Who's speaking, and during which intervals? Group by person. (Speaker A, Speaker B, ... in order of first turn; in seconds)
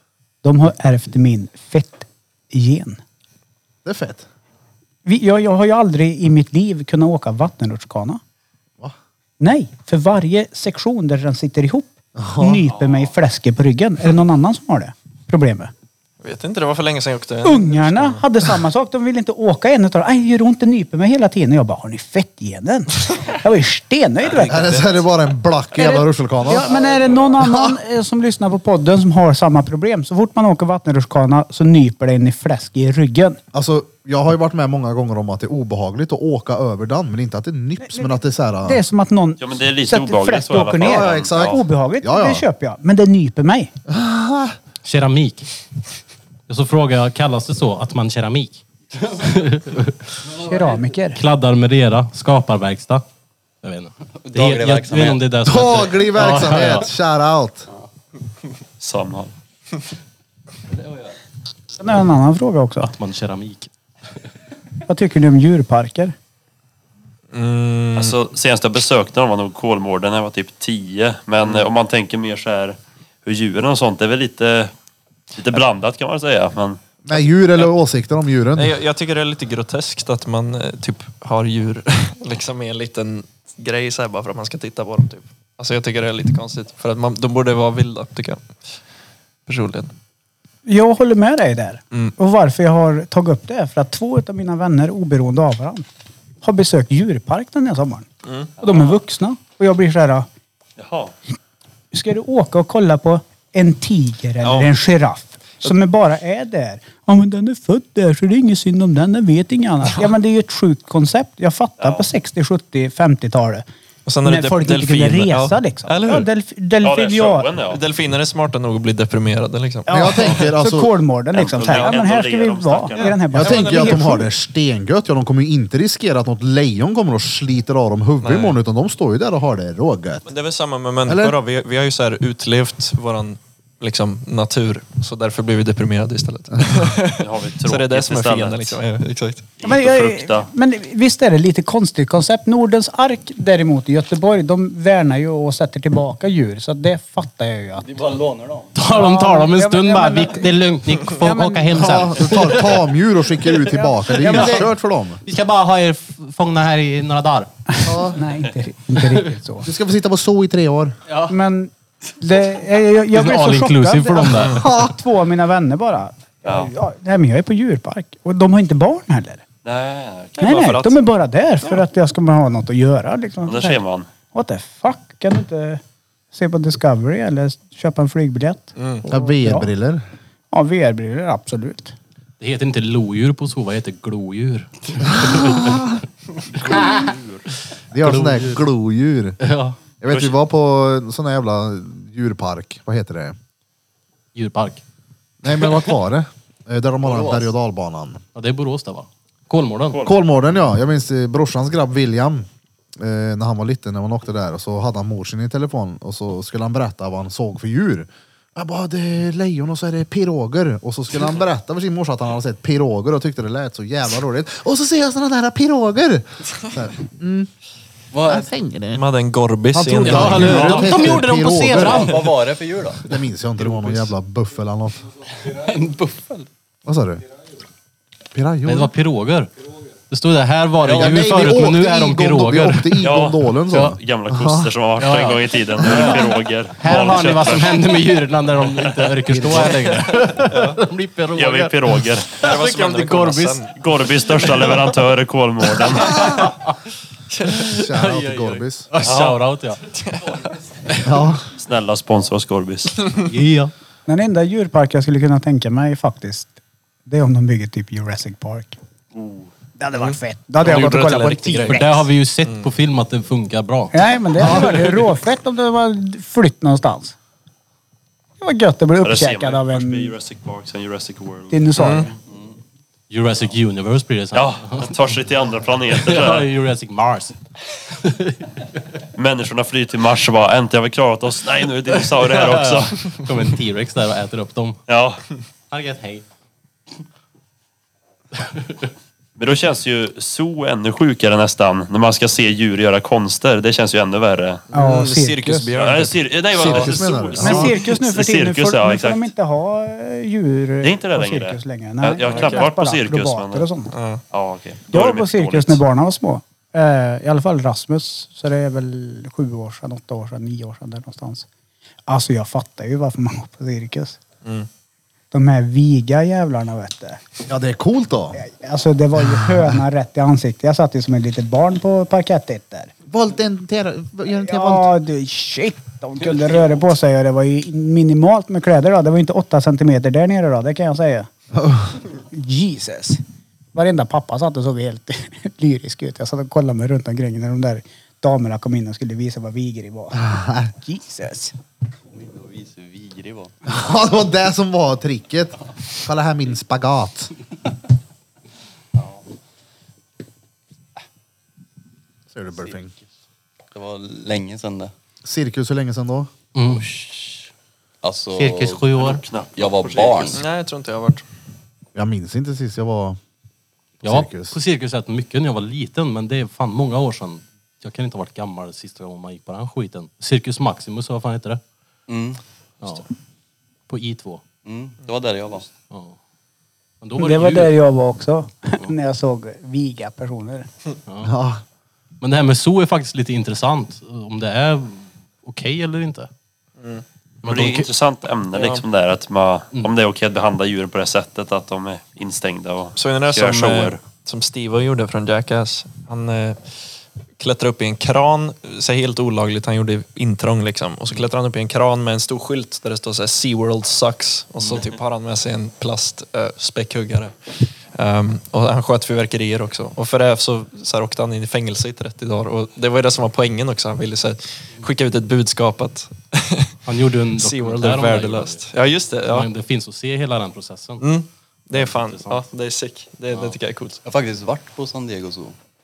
Speaker A: 0.4-3.0, 5.0-8.2, 9.4-15.7, 17.4-24.8, 25.8-33.4, 37.8-43.7, 50.4-51.2, 61.8-62.9, 64.9-66.2, 90.7-95.9, 96.4-98.1, 98.6-100.3, 101.9-113.7, 114.2-117.5, 119.9-124.3, 139.6-147.9, 148.9-152.0, 154.2-154.6, 157.7-159.7, 161.3-169.4, 170.4-173.8, 174.3-175.8, 176.3-179.7, 180.5-181.9, 254.1-256.5, 257.1-258.8, 259.8-262.1, 263.9-267.2, 268.4-270.2, 271.5-272.1, 294.7-295.7, 297.4-303.9, 304.9-311.5, 312.1-314.2, 315.3-317.2, 318.4-322.9, 324.3-331.3, 332.3-333.2, 333.8-341.6, 377.2-380.7
Speaker B: 3.9-4.3, 12.2-12.6, 24.5-26.8, 27.4-27.8, 33.5-38.8, 40.8-42.4, 43.9-44.6, 55.4-57.7, 77.0-78.8, 119.9-120.9, 123.3-130.2, 131.1-131.4, 151.7-155.2, 157.8-158.2, 159.6-161.0, 164.4-165.0, 179.1-180.0, 185.1-185.9, 187.9-189.4, 190.0-193.4, 195.4-198.2, 200.0-217.5, 218.3-219.0, 219.7-222.2, 223.0-225.1, 226.8-227.2, 228.3-228.9, 230.9-234.7, 239.2-239.8, 247.6-248.9, 251.0-251.5, 264.4-264.8, 296.6-297.8, 317.5-318.4, 323.1-324.9, 331.5-331.9, 340.1-340.7, 343.7-347.3, 352.3-352.9, 355.2-356.3, 361.9-363.2, 364.0-364.6, 381.2-381.6
Speaker C: 12.7-13.1, 39.4-41.6, 58.8-59.3, 68.0-74.7, 75.3-76.8, 100.8-101.1, 111.8-112.1, 116.8-117.8, 121.3-123.2, 137.2-138.8, 139.6-140.5, 166.4-166.7, 169.6-170.5, 173.5-174.1, 186.5-187.4, 190.1-190.4, 199.9-200.2, 220.5-221.0, 233.0-237.8, 238.8-239.3, 241.3-242.4, 243.7-246.4, 249.0-249.4, 251.5-253.1, 259.1-259.5, 269.0-272.1, 274.3-276.5, 279.2-283.1, 284.9-285.2, 289.4-294.6, 295.8-299.3, 300.8-303.7, 304.3-305.8, 358.9-360.4, 387.5-394.0
Speaker D: 16.2-18.2, 67.3-68.2, 77.1-77.7, 78.5-88.5, 89.5-89.9, 98.3-98.5, 104.4-104.7, 114.1-116.3, 117.7-120.1, 123.0-124.2, 128.2-128.6, 130.3-139.5, 170.4-171.0, 178.8-179.0, 218.9-220.7, 240.4-240.8, 242.4-243.7, 249.9-250.4, 259.9-261.9, 271.8-272.1, 294.7-296.8, 302.2-302.7, 303.9-304.2, 359.8-361.2, 386.8-387.8, 388.5-388.8, 393.0-396.7, 397.4-416.8, 417.3-419.5, 421.0-424.0
Speaker E: 26.8-27.3, 54.2-55.4, 147.8-148.9, 197.0-197.5, 218.1-218.5, 221.7-223.0, 223.7-224.1, 225.4-226.5, 230.8-231.7, 342.1-343.6, 348.9-349.2, 353.7-354.9, 356.7-357.5, 358.0-360.4, 372.1-372.4, 374.6-375.7, 424.1-425.6
Speaker F: 44.8-45.5, 46.5-50.3, 51.1-53.0, 53.6-56.9, 62.8-63.7, 148.8-152.9, 153.5-154.7, 155.2-158.0, 159.0-159.3, 161.1-161.3, 163.1-164.7, 182.4-186.0, 186.7-187.1, 188.0-188.6, 189.4-189.8, 194.3-194.8, 198.3-200.1, 220.0-222.3, 228.7-229.5, 230.1-233.0, 233.7-234.0, 235.0-243.7, 244.3-244.9, 245.8-246.5, 247.5-249.8, 253.2-253.7, 261.7-265.0, 273.1-275.0, 275.9-277.4, 277.9-278.5, 282.0-284.8, 285.7-286.2, 288.4-288.9, 356.6-356.9, 358.4-359.2, 364.0-371.6, 372.8-373.1, 373.9-374.4, 375.9-376.2, 377.0-377.8, 382.2-386.3, 387.4-387.9, 416.9-418.6, 419.3-421.1, 421.7-422.4